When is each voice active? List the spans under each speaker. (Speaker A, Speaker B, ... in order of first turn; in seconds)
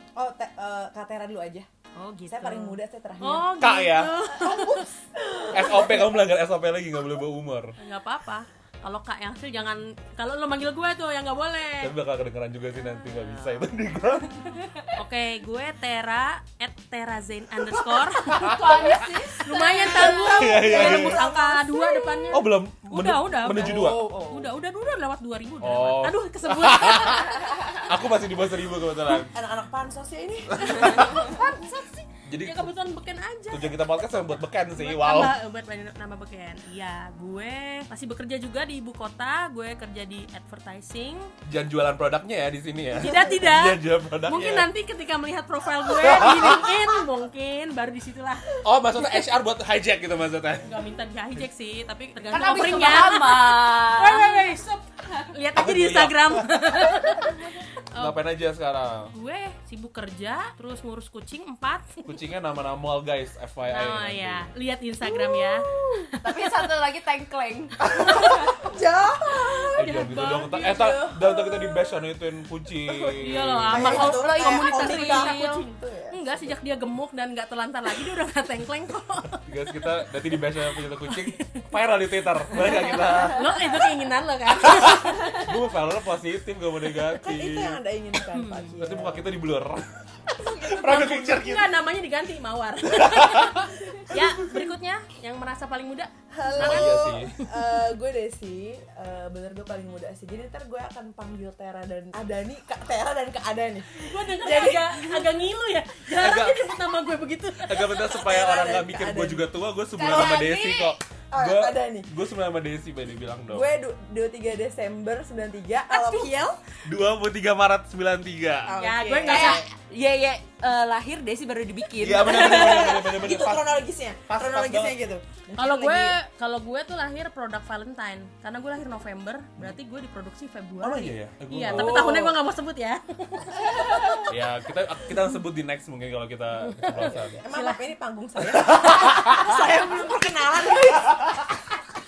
Speaker A: 0.1-1.7, 2.3-3.5, 4.3-6.2, 20.6-22.4, 23.5-24.5, 29.1-31.4, 65.0-66.1, 67.8-71.9, 73.7-76.5, 87.1-89.3, 90.4-91.4, 96.3-105.3, 108.0-109.4, 111.3-112.1, 113.5-116.6, 118.6-119.6, 122.2-126.1, 131.7-132.4, 136.9-141.7
Speaker B: 1.9-4.9, 7.8-11.9, 14.9-18.6, 19.4-27.5, 30.6-33.7, 34.7-41.3, 43.0-48.5, 50.6-58.2, 59.1-62.1, 63.6-65.7, 69.4-70.8, 73.0-79.4, 81.1-81.6, 82.5-85.2, 88.3-88.8, 90.8-97.5, 103.9-108.0, 115.9-116.4, 118.8-119.6, 125.5-134.1, 136.9-137.9
Speaker C: 3.6-4.1, 5.5-7.7, 11.8-14.4, 17.7-19.1, 20.1-21.2, 22.3-24.1, 25.6-29.3, 30.5-31.3, 32.2-32.8, 33.5-35.3, 41.4-44.7, 45.9-46.8, 48.6-50.8, 55.5-56.7, 57.9-59.1, 62.0-64.5, 69.8-74.1, 79.5-83.6, 84.5-87.8, 88.8-91.8, 92.8-93.8, 96.6-97.3, 106.1-106.7, 107.6-113.7, 116.8-118.8, 122.0-125.0, 130.8-132.3, 134.3-137.4, 138.8-139.3
Speaker D: 14.4-14.8, 18.3-20.5, 52.3-54.5, 66.2-68.4, 73.8-75.5, 110.0-111.0, 119.2-123.0, 133.7-134.3